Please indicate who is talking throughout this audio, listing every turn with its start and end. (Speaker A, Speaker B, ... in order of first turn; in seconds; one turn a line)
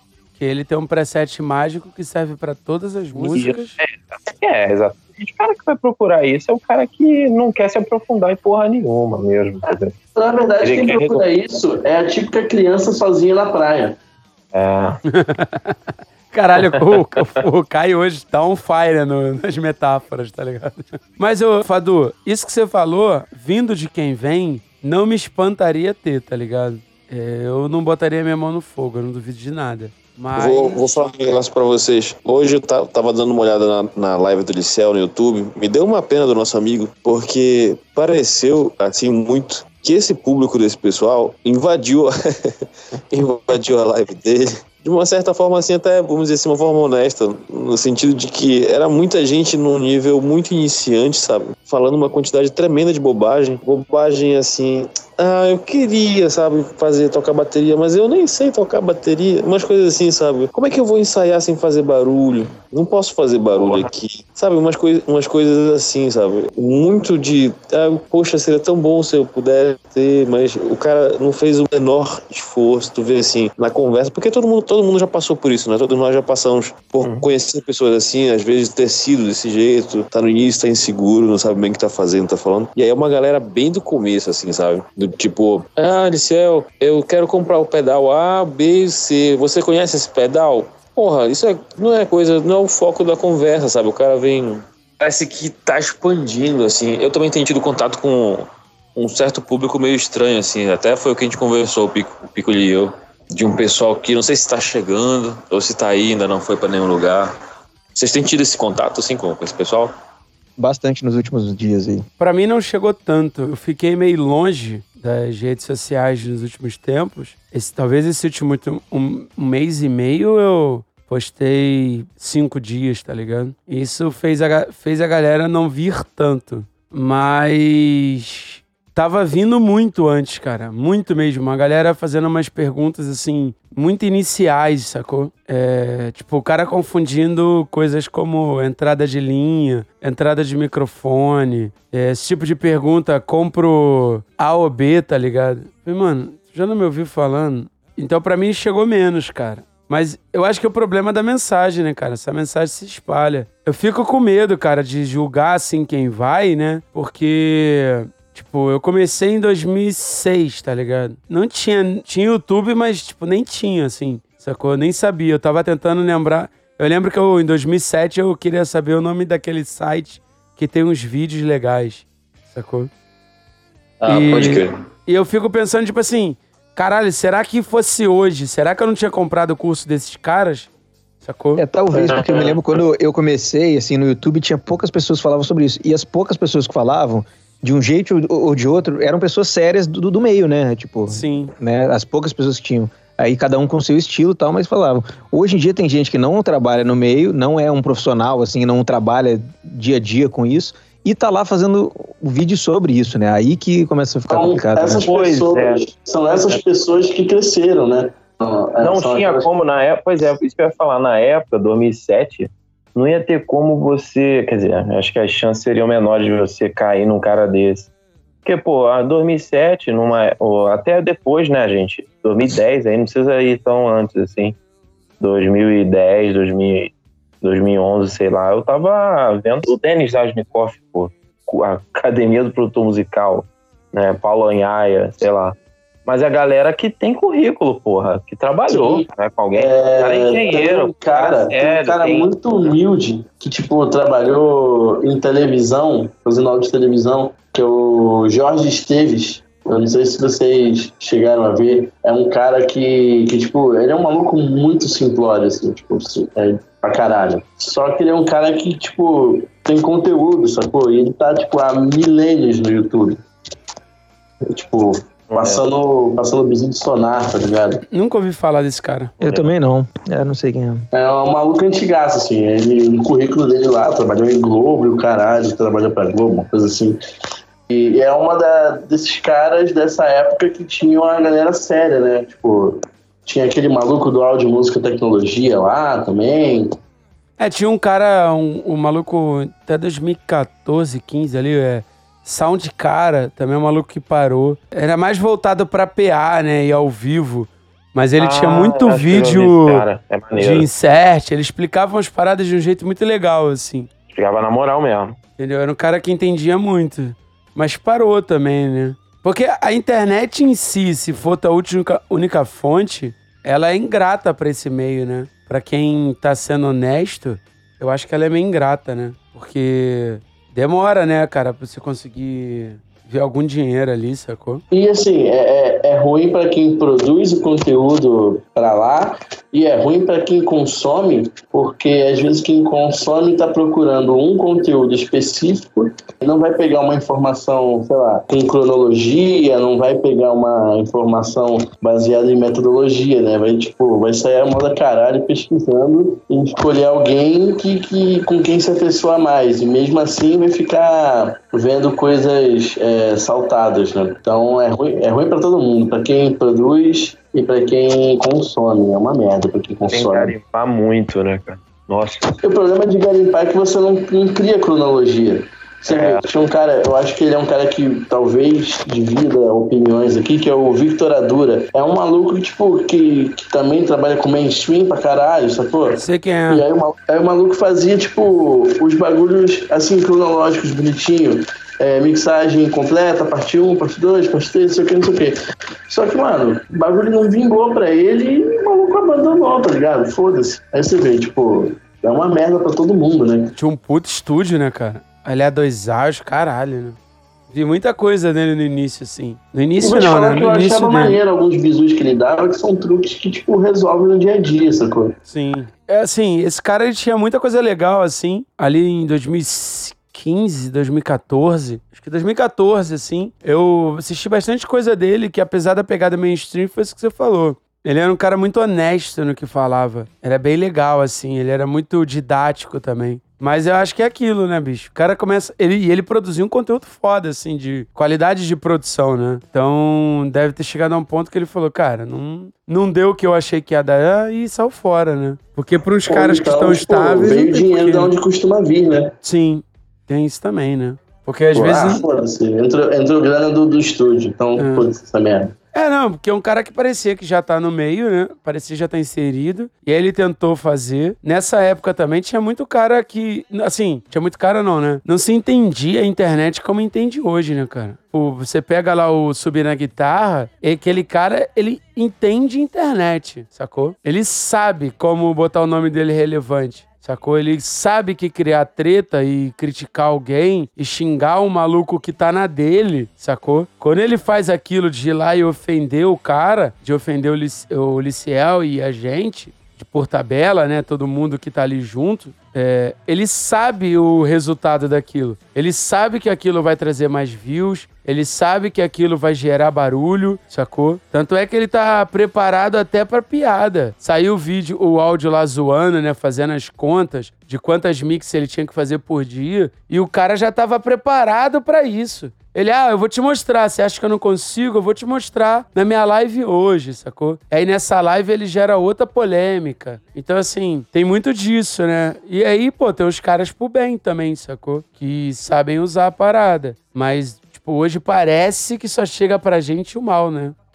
Speaker A: 0.4-3.8
Speaker B: 3.2-9.9
Speaker C: 10.2-14.0
Speaker B: 10.6-11.2
Speaker B: 14.5-15.0
Speaker A: 15.1-15.8
Speaker A: 16.3-31.0
Speaker D: 30.3-42.1
Speaker D: 43.1-107.3
Speaker B: 63.5-63.9
Speaker D: 107.9-109.9
Speaker E: 110.6-112.1
Speaker A: 112.2-172.9
Speaker D: 174.0-174.8
Speaker A: 174.1-180.7
Speaker A: 181.2-181.6
Speaker E: 181.6-205.2
Speaker A: 191.1-191.5
Speaker C: 204.3-209.5
Speaker B: 205.0-205.8
Speaker B: 208.8-217.9
Speaker B: 218.4-224.6
Speaker B: 225.2-242.3
Speaker C: 238.7-239.0
Speaker C: 239.6-263.2
Speaker C: 264.5-267.8
Speaker B: 265.3-265.6
Speaker A: 267.9-269.1
Speaker B: 269.2-269.5
Speaker E: 269.2-270.9
Speaker C: 270.9-277.0
Speaker C: 277.7-286.7
Speaker A: 287.4-303.9
Speaker B: 298.2-300.7
Speaker B: 304.1-305.2
Speaker A: 305.4-324.6
Speaker C: 324.7-360.3
Speaker B: 359.9-362.4
Speaker C: 362.4-385.4
Speaker B: 365.9-366.2
Speaker A: 376.0-376.6
Speaker C: 385.9-393.5
Speaker A: 393.6-397.0
Speaker A: 397.5-401.2
Speaker C: 399.8-405.1
Speaker A: 405.3-438.1
Speaker C: 436.1-439.1
Speaker A: 439.2-442.0
Speaker C: 441.5-445.5
Speaker A: 444.6-444.9
Speaker A: 445.7-520.5